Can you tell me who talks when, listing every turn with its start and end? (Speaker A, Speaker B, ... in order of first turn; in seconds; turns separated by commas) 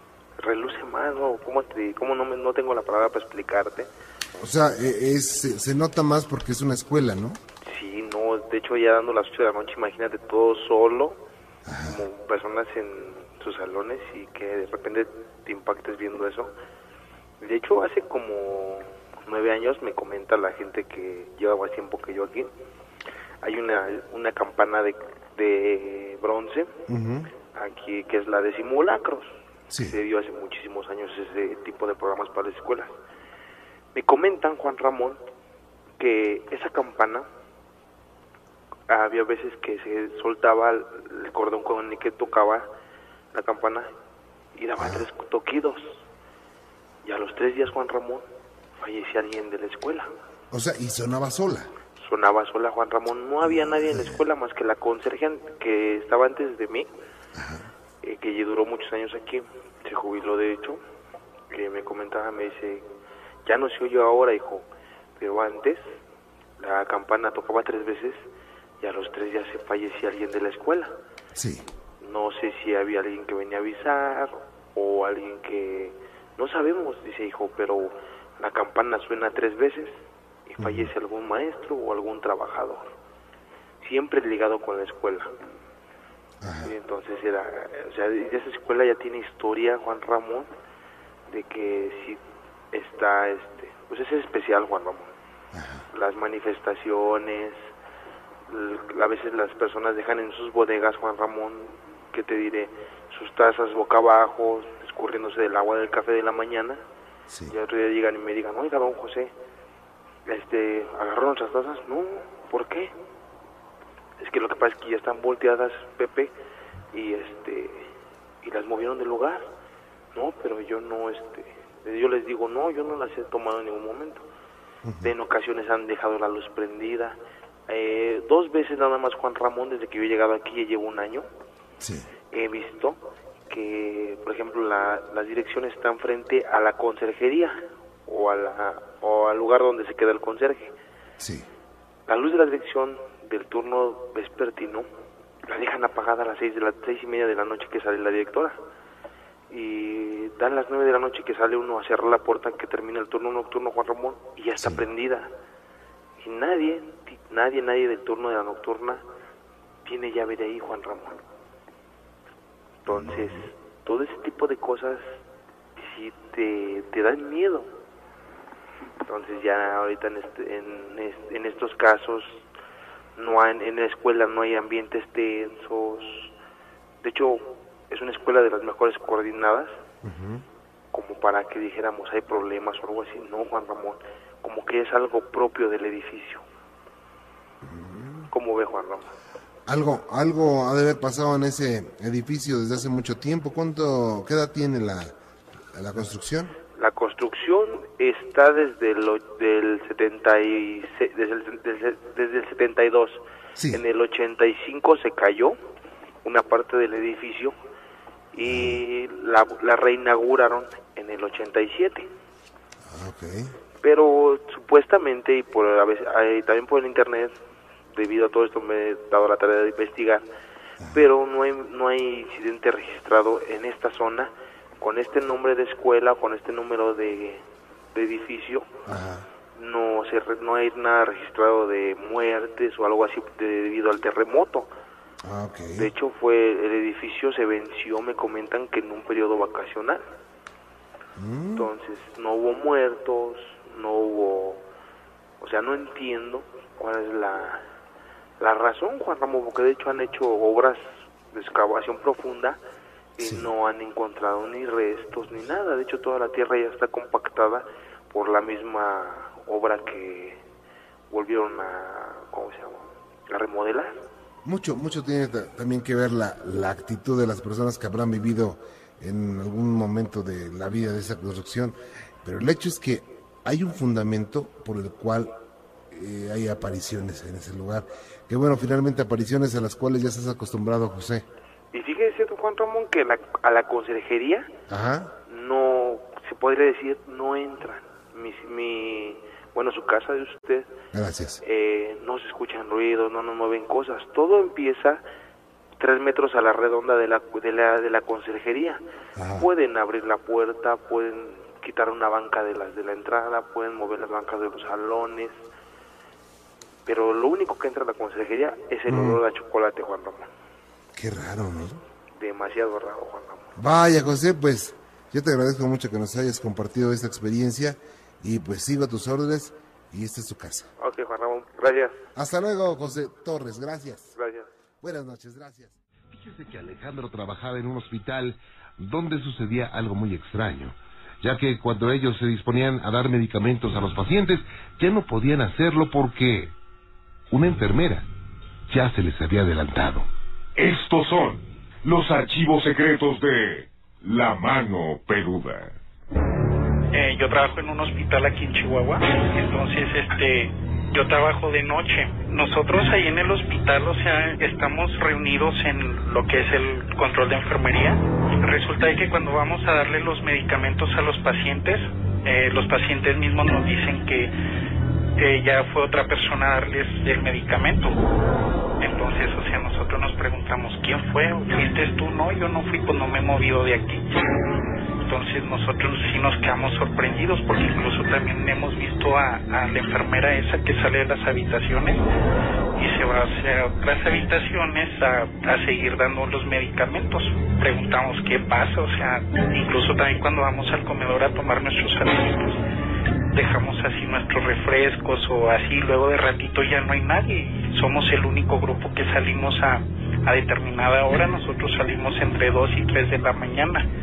Speaker A: 0.4-3.9, Speaker B: 4.3-7.4, Speaker A: 7.6-11.2, Speaker B: 11.7-12.0, Speaker A: 11.8-16.5, Speaker A: 17.4-22.5, Speaker A: 23.4-26.7, Speaker B: 26.9-27.3, Speaker A: 27.5-32.9, Speaker B: 29.7-30.0, Speaker A: 33.9-35.2, Speaker A: 36.0-37.3, Speaker A: 38.9-42.7, Speaker A: 43.3-43.9, Speaker A: 44.5-46.0, Speaker B: 44.8-45.0, Speaker A: 47.0-48.3, Speaker A: 48.8-50.1, Speaker B: 50.5-51.7, Speaker A: 52.0-56.9, Speaker B: 53.5-54.2, Speaker B: 57.4-57.7, Speaker A: 58.0-60.8, Speaker A: 61.5-62.9, Speaker A: 63.4-64.7, Speaker A: 65.2-66.0, Speaker A: 66.6-68.3, Speaker A: 68.8-70.9, Speaker B: 71.4-71.7, Speaker A: 72.0-82.9, Speaker B: 80.6-80.9, Speaker A: 83.8-85.3, Speaker B: 86.4-86.7, Speaker A: 86.6-90.5, Speaker A: 91.3-92.2, Speaker A: 92.7-95.1, Speaker B: 95.5-95.9, Speaker A: 95.9-97.6, Speaker A: 98.5-106.8, Speaker B: 107.3-107.5, Speaker A: 107.5-109.3, Speaker A: 110.3-112.9, Speaker A: 114.2-116.3, Speaker A: 116.9-117.9, Speaker A: 118.4-119.5, Speaker A: 120.1-124.3, Speaker B: 124.8-125.1, Speaker A: 125.0-131.3, Speaker B: 131.8-132.1, Speaker A: 132.3-140.7, Speaker B: 141.2-141.5, Speaker A: 142.1-144.9, Speaker A: 145.4-148.6, Speaker A: 149.5-155.3, Speaker B: 154.6-154.9, Speaker A: 156.2-159.0, Speaker A: 159.8-161.2, Speaker A: 162.8-165.2, Speaker B: 162.9-163.4, Speaker A: 165.8-167.7, Speaker A: 169.1-172.4, Speaker A: 173.2-176.3, Speaker A: 177.0-179.7, Speaker B: 180.0-180.4, Speaker A: 180.9-186.4, Speaker B: 187.6-188.3, Speaker A: 188.3-189.1, Speaker B: 189.7-195.2, Speaker B: 195.7-196.6, Speaker A: 196.7-205.6, Speaker B: 203.6-203.8, Speaker A: 206.2-207.6, Speaker A: 208.3-212.1, Speaker B: 208.4-208.8, Speaker B: 212.9-213.5, Speaker A: 213.8-217.4, Speaker A: 217.9-220.2, Speaker A: 220.9-228.7, Speaker B: 228.9-229.3, Speaker A: 229.5-234.7, Speaker B: 235.2-235.9, Speaker A: 235.8-240.0, Speaker B: 241.2-241.7, Speaker A: 241.6-244.6, Speaker A: 245.4-247.6, Speaker A: 248.4-252.6, Speaker A: 253.2-260.4, Speaker B: 253.2-253.5, Speaker A: 261.1-263.9, Speaker B: 264.4-275.3, Speaker B: 275.9-281.2, Speaker A: 281.7-284.5, Speaker B: 284.7-285.1, Speaker A: 285.3-290.7, Speaker B: 290.9-291.4, Speaker A: 291.4-295.0, Speaker A: 295.8-298.8, Speaker B: 299.2-299.5, Speaker A: 299.3-305.4, Speaker A: 306.8-310.3, Speaker B: 308.9-309.2, Speaker B: 310.9-311.8, Speaker A: 312.1-313.5, Speaker B: 313.6-320.7, Speaker A: 320.8-322.0, Speaker B: 322.1-324.1, Speaker A: 324.2-324.5, Speaker B: 324.8-325.8, Speaker C: 326.1-336.5, Speaker C: 337.3-338.1, Speaker C: 338.7-340.1, Speaker D: 340.6-345.8, Speaker E: 346.9-364.3, Speaker E: 365.2-368.0, Speaker E: 368.8-374.2, Speaker E: 375.0-382.0, Speaker E: 382.8-392.6, Speaker E: 393.3-403.9